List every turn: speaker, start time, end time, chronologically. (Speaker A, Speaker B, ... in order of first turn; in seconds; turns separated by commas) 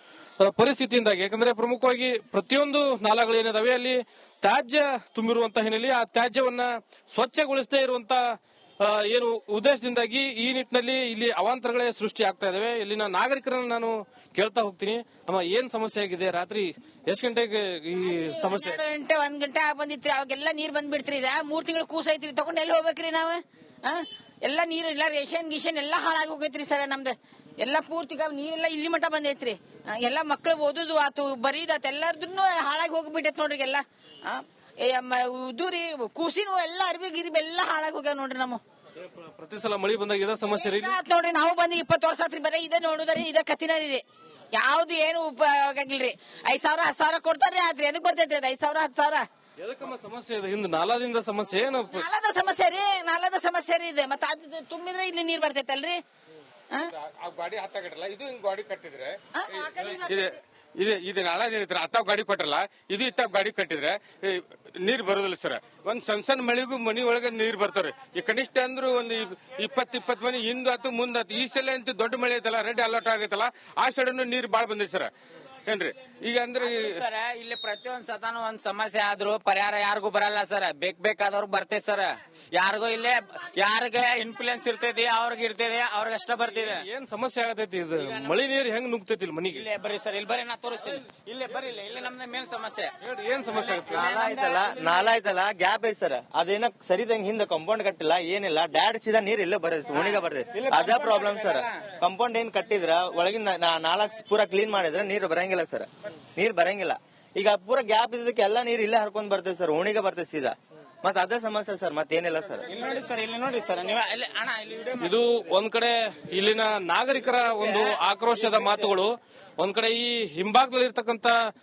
Speaker A: 0.4-8.2, Speaker A: 8.8-18.8, Speaker B: 18.1-38.6, Speaker A: 39.0-41.0, Speaker B: 40.4-44.0, Speaker B: 44.5-49.2, Speaker A: 49.6-52.0, Speaker B: 51.9-56.0, Speaker C: 57.2-59.1, Speaker B: 59.4-60.4, Speaker C: 59.9-75.1, Speaker C: 75.7-77.0, Speaker D: 76.6-86.8, Speaker A: 86.5-89.6, Speaker D: 88.0-88.3, Speaker D: 89.5-92.9, Speaker A: 93.0-94.1, Speaker E: 93.9-112.7, Speaker D: 94.0-95.1, Speaker D: 100.0-101.7, Speaker D: 112.7-115.1, Speaker A: 115.0-121.3